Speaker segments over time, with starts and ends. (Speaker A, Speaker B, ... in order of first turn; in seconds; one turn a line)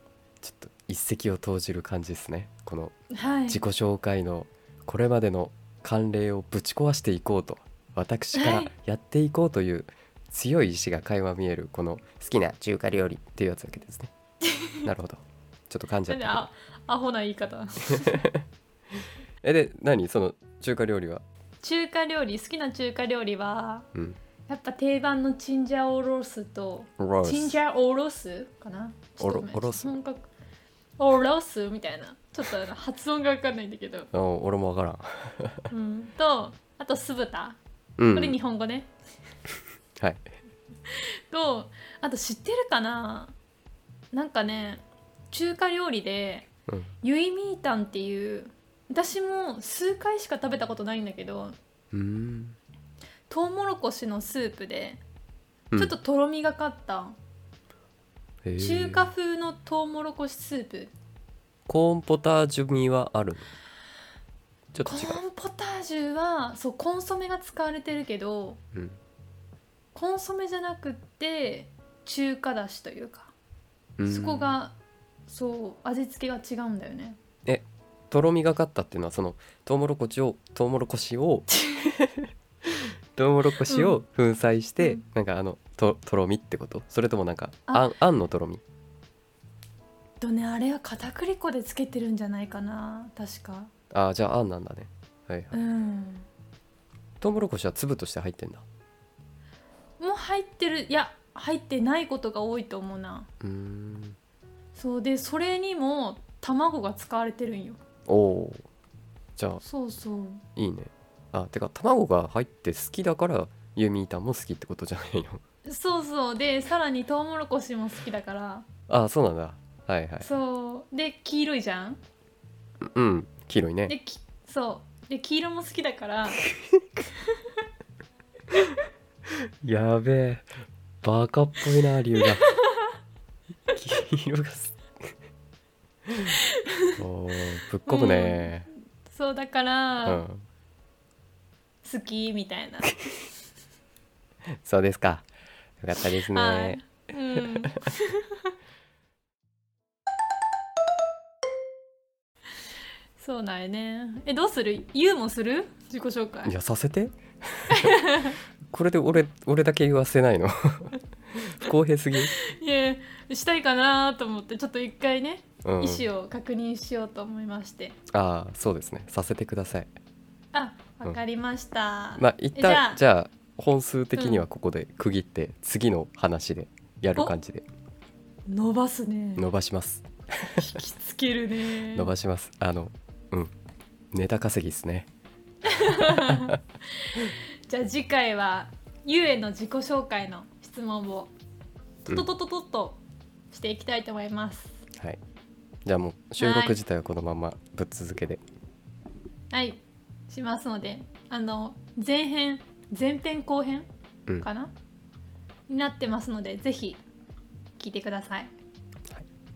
Speaker A: 0.4-2.9
Speaker B: 3.1-3.6
Speaker A: 3.5-14.1
Speaker B: 8.3-8.7
Speaker B: 14.5-14.9
Speaker A: 14.8-16.5
Speaker B: 16.1-18.2
Speaker A: 19.4-21.2
Speaker B: 21.6-23.9
Speaker B: 24.5-30.3
Speaker A: 27.0-27.5
Speaker A: 29.2-29.9
Speaker B: 31.0-34.1
Speaker A: 34.1-35.7
Speaker B: 35.7-37.6
Speaker A: 38.0-38.4
Speaker B: 38.1-38.9
Speaker B: 40.9-43.3
Speaker B: 44.1-46.5
Speaker B: 47.0-51.5
Speaker A: 51.9-52.6
Speaker B: 53.3-55.0
Speaker A: 55.7-56.0
Speaker B: 55.8-57.2
Speaker A: 58.4-59.1
Speaker B: 58.6-60.9
Speaker A: 61.7-63.5
Speaker A: 64.7-65.2
Speaker B: 64.9-68.6
Speaker B: 69.9-73.3
Speaker A: 74.0-74.5
Speaker B: 74.0-74.8
Speaker B: 75.3-77.2
Speaker A: 77.5-88.6
Speaker B: 81.6-81.9
Speaker B: 83.7-84.0
Speaker B: 90.2-93.7
Speaker A: 93.9-95.5
Speaker B: 95.5-96.3
Speaker A: 97.2-98.6
Speaker B: 100.0-103.3
Speaker A: 103.4-104.2
Speaker B: 104.7-107.8
Speaker A: 108.1-108.6
Speaker A: 109.4-109.6
Speaker B: 109.6-110.4
Speaker A: 110.5-115.4
Speaker B: 115.7-118.7
Speaker A: 118.9-120.3
Speaker B: 120.2-122.0
Speaker A: 122.8-123.9
Speaker B: 123.9-126.5
Speaker A: 129.6-130.5
Speaker A: 131.0-132.4
Speaker B: 132.2-132.8
Speaker A: 133.7-134.8
Speaker A: 137.0-138.7
Speaker B: 137.8-140.2
Speaker A: 140.0-140.4
Speaker B: 141.8-143.1
Speaker A: 144.6-145.3
Speaker A: 145.8-146.8
Speaker B: 146.3-148.4
Speaker B: 153.2-156.5
Speaker A: 156.4-157.9
Speaker B: 157.7-158.4
Speaker A: 158.7-162.3
Speaker B: 162.2-168.0
Speaker A: 165.6-166.1
Speaker A: 168.1-169.9
Speaker B: 170.5-173.0
Speaker A: 172.2-177.6
Speaker B: 174.2-174.4
Speaker B: 178.5-179.4
Speaker A: 179.4-180.7
Speaker B: 180.5-182.1
Speaker A: 181.9-183.5
Speaker A: 184.1-185.1
Speaker B: 185.6-191.3
Speaker A: 186.2-186.5
Speaker B: 192.1-194.8
Speaker A: 195.8-198.4
Speaker B: 196.4-196.8
Speaker B: 199.5-203.9
Speaker B: 204.4-204.7
Speaker B: 205.7-207.0
Speaker B: 207.8-208.5